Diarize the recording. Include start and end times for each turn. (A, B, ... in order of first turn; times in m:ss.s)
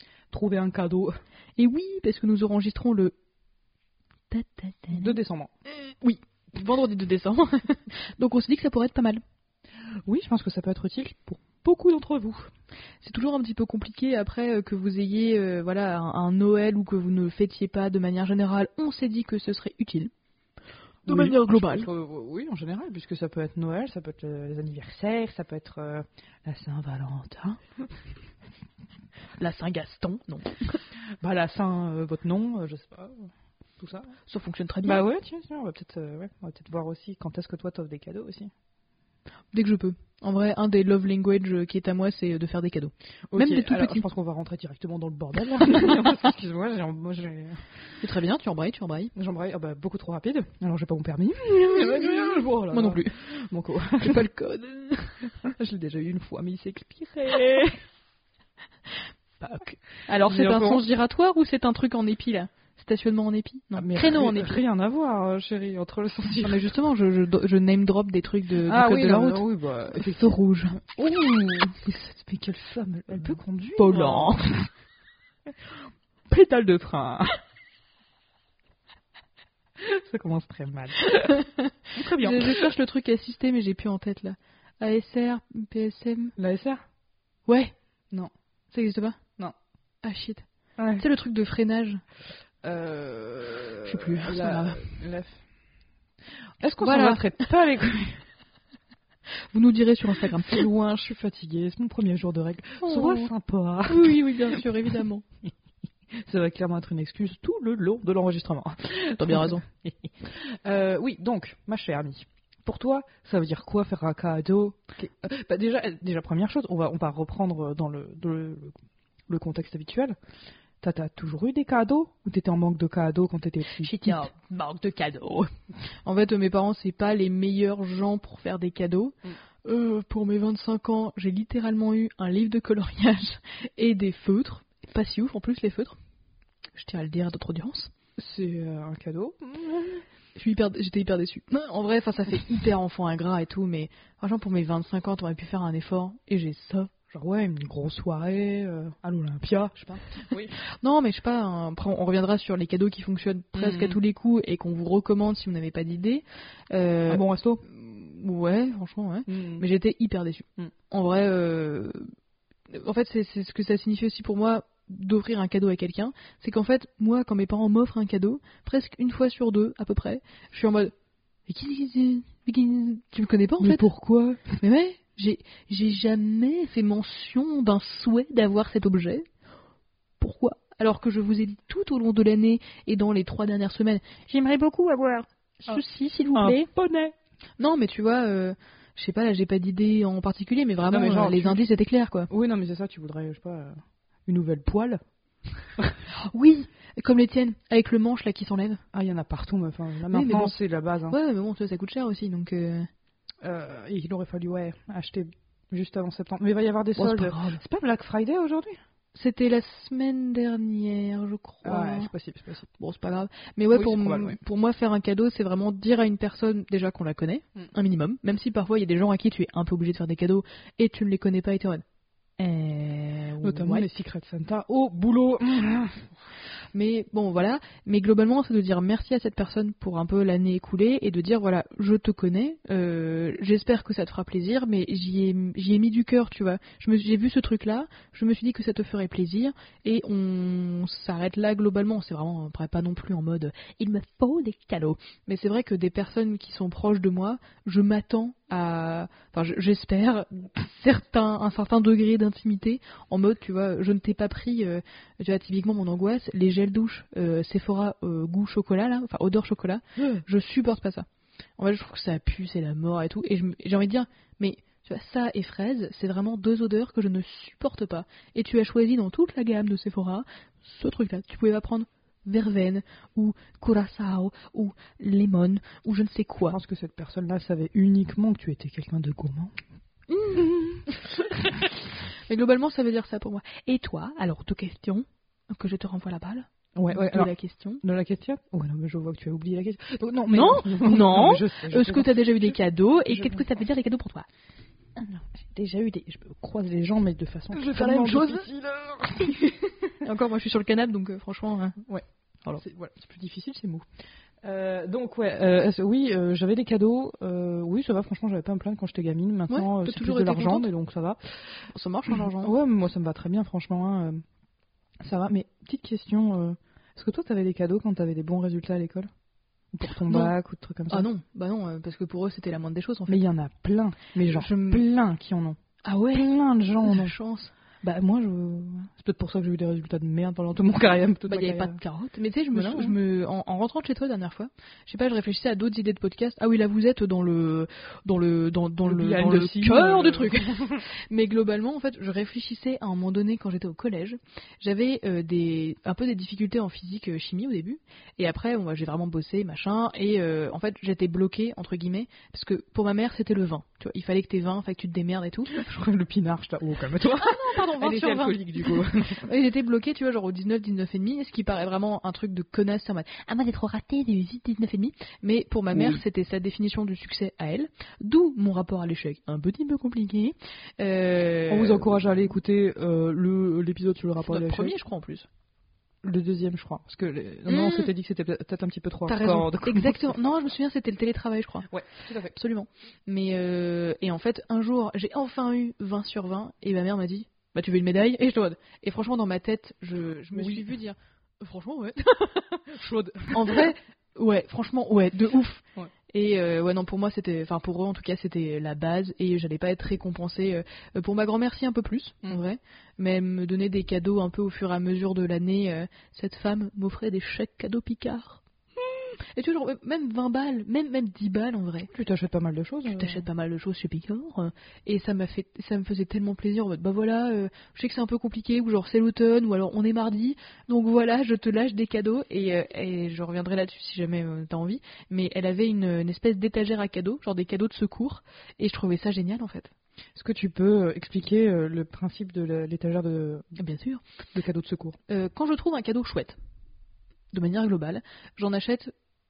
0:00.3-0:01.2 A
0:01.6-0:03.1 B
0:04.3-0:05.2 B
0:04.9-0:05.5 A
0:06.0-0:09.2 B
0:10.1-0:12.5 A
0:13.0-0:20.1 B
0:21.1-0:21.9 B
0:21.1-0:27.6 A
0:29.4-0:30.7 B
0:31.2-0:34.1 A
0:34.3-0:35.0 B
0:34.8-0:38.5 A
0:39.5-0:44.1 B
0:43.3-0:47.6 A
0:48.0-0:49.1 B
0:49.1-0:54.2 A
0:51.7-0:53.1 B
0:54.0-0:55.3 B
0:55.4-0:57.8 A
0:59.4-1:00.8 A
1:00.0-1:04.6 B
1:03.7-1:06.7 A
1:06.4-1:10.8 B
1:08.6-1:14.7 A
1:13.8-1:14.5 B
1:16.3-1:17.4 A
1:19.8-1:22.7 A
1:21.2-1:26.3 B
1:26.4-1:26.8 A
1:27.5-1:27.7 B
1:28.7-1:29.2 B
1:30.0-1:30.4 B
1:30.8-1:31.0 A
1:31.0-1:32.0 B
1:32.6-1:35.4 A
1:33.8-1:34.9 B
1:36.6-1:38.2 A
1:36.8-1:37.4 B
1:39.5-1:40.7 B
1:40.2-1:44.6 A
1:42.8-1:43.3 B
1:43.8-1:45.2 B
1:46.1-1:58.7 A
1:49.2-1:49.6 B
1:59.3-2:00.2 A
2:00.8-2:04.3 A
2:03.7-2:05.5 B
2:06.0-2:16.0 B
2:16.8-2:17.9 B
2:18.2-2:20.0 A
2:20.3-2:26.9 B
2:27.1-2:30.6 A
2:30.6-2:42.1 B
2:33.6-2:34.0 A
2:37.1-2:37.6 A
2:39.3-2:39.6 A
2:42.7-2:50.9 B
2:51.5-2:53.9 B
2:53.6-2:54.6 A
2:54.6-2:59.3 B
3:00.2-3:06.7 B
3:06.3-3:07.2 A
3:07.6-3:12.3 B
3:10.9-3:11.6 A
3:12.3-3:15.0 A
3:16.1-3:18.8 B
3:18.9-3:21.2 A
3:20.1-3:20.6 B
3:21.1-3:22.9 B
3:23.4-3:28.8 A
3:27.0-3:27.6 B
3:29.2-3:32.1 B
3:31.6-3:32.7 A
3:32.8-3:41.8 B
3:33.7-3:34.4 A
3:42.4-3:43.9 B
3:43.4-3:46.1 A
3:46.7-4:21.1 B
4:21.6-4:36.6 B
4:36.5-4:39.5 A
4:40.1-4:47.8 B
4:40.3-4:40.8 A
4:46.8-4:47.3 A
4:47.8-4:52.6 A
4:50.3-4:54.3 B
4:53.1-4:53.5 A
4:55.0-4:59.5 A
4:57.5-4:58.5 B
4:59.2-5:01.8 B
5:02.6-5:03.9 A
5:04.4-5:11.2 A
5:09.5-5:10.7 B
5:11.7-5:12.5 B
5:12.1-5:14.2 A
5:15.0-5:19.1 A
5:19.7-5:21.1 A
5:19.9-5:20.3 B
5:20.9-5:23.2 B
5:23.1-5:25.6 A
5:24.2-5:24.8 B
5:25.8-5:26.3 B
5:26.1-5:27.2 A
5:26.8-5:27.5 B
5:27.8-5:31.8 A
5:31.3-5:55.5 B
5:32.5-5:33.0 A
5:38.9-5:40.8 A
5:55.5-5:59.3 A
5:57.1-6:12.0 B
6:05.7-6:06.0 A
6:11.5-6:14.7 A
6:14.2-6:15.3 B
6:16.0-6:20.2 A
6:17.5-6:17.9 B
6:19.1-6:21.7 B
6:21.7-6:22.4 A
6:22.3-6:32.6 B
6:30.3-6:30.7 A
6:32.6-6:33.7 A
6:33.3-6:51.9 B
6:51.9-6:53.2 A
6:52.8-7:09.7 B
7:10.2-7:13.5 A
7:13.6-7:14.0 B
7:14.3-7:15.0 A
7:15.1-7:16.4 B
7:17.3-7:18.9 B